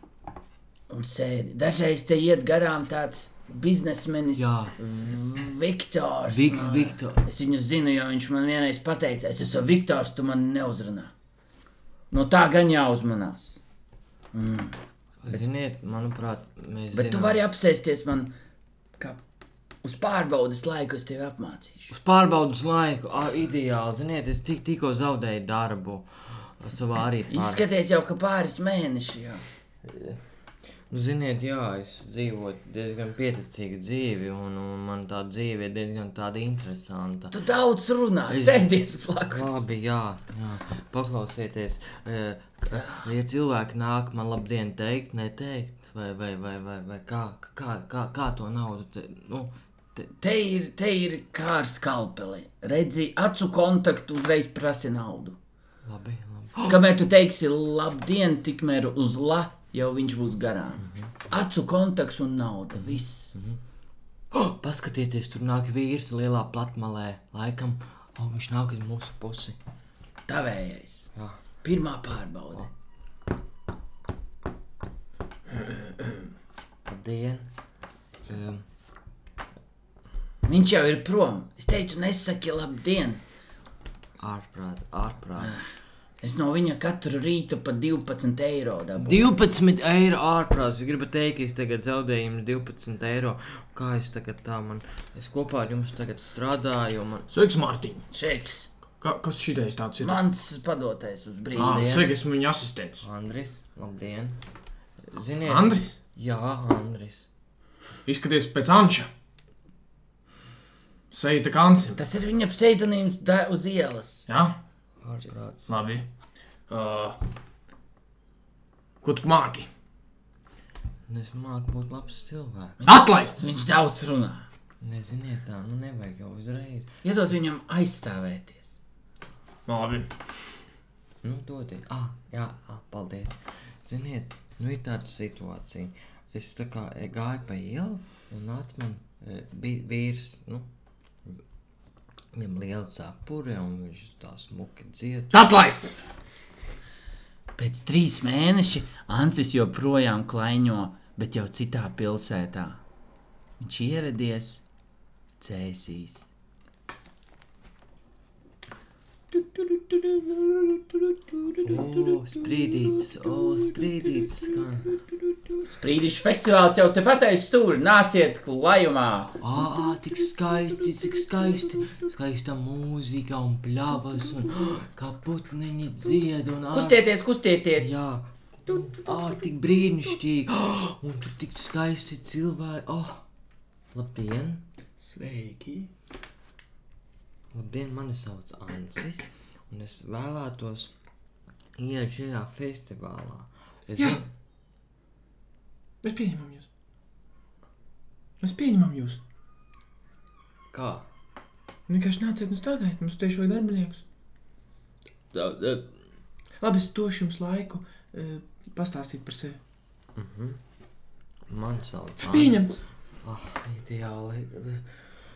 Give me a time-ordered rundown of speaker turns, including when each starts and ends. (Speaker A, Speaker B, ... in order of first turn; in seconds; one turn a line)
Speaker A: 0.9-11.1
Speaker B: 4.4-4.8
Speaker B: 6.3-7.2
Speaker A: 12.1-13.6
Speaker A: 14.3-14.8
Speaker B: 15.2-17.4
Speaker A: 16.9-18.3
Speaker A: 19.8-21.9
Speaker B: 21.9-27.6
Speaker A: 27.3-29.4
Speaker B: 29.8-30.2
Speaker B: 30.9-37.4
Speaker A: 37.3-39.6
Speaker B: 38.3-38.7
Speaker B: 39.3-50.1
Speaker A: 50.2-55.4
Speaker B: 55.9-56.8
Speaker A: 56.6-63.3
Speaker B: 60.8-61.1
Speaker B: 62.8-63.6
Speaker B: 64.3-69.6
Speaker A: 70.3-71.1
Speaker B: 71.1-71.4
Speaker A: 71.6-72.7
Speaker B: 76.9-77.5
Speaker B: 78.2-78.6
Speaker A: 80.4-83.2
Speaker B: 84.2-85.6
Speaker A: 86.2-89.3
Speaker B: 89.0-97.3
Speaker C: 97.3-98.0
Speaker A: 98.1-98.7
Speaker C: 99.0-100.2
Speaker A: 100.0-102.0
Speaker B: 101.5-102.1
Speaker C: 101.5-103.0
Speaker B: 103.0-104.4
Speaker B: 105.1-107.3
Speaker C: 105.4-105.9
Speaker C: 108.0-109.1
Speaker C: 111.1-112.0
Speaker A: 112.0-114.3
Speaker C: 114.3-114.6
Speaker B: 115.0-115.7
Speaker C: 115.7-116.0
Speaker C: 116.7-117.2
Speaker C: 119.0-119.7
Speaker B: 121.1-122.8
Speaker A: 122.8-124.5
Speaker C: 122.8-123.4
Speaker B: 124.8-126.9
Speaker A: 127.0-128.7
Speaker C: 129.7-130.1
Speaker B: 131.2-140.7
Speaker B: 142.3-145.4
Speaker C: 145.3-146.0
Speaker A: 147.6-152.8
Speaker A: 153.6-154.6
Speaker A: 155.4-156.3
Speaker B: 161.6-165.1
Speaker A: 165.7-169.4
Speaker B: 169.4-177.0
Speaker A: 176.7-177.9
Speaker B: 177.8-183.2
Speaker B: 183.9-184.6
Speaker A: 185.0-185.9
Speaker B: 187.5-190.9
Speaker B: 191.8-194.3
Speaker C: 194.0-194.2
Speaker C: 196.0-196.7
Speaker C: 198.4-199.2
Speaker B: 200.7-201.1
Speaker C: 201.9-204.0
Speaker B: 205.3-205.9
Speaker C: 206.6-209.6
Speaker B: 210.2-210.6
Speaker B: 211.5-212.6
Speaker C: 212.2-212.8
Speaker B: 213.2-215.0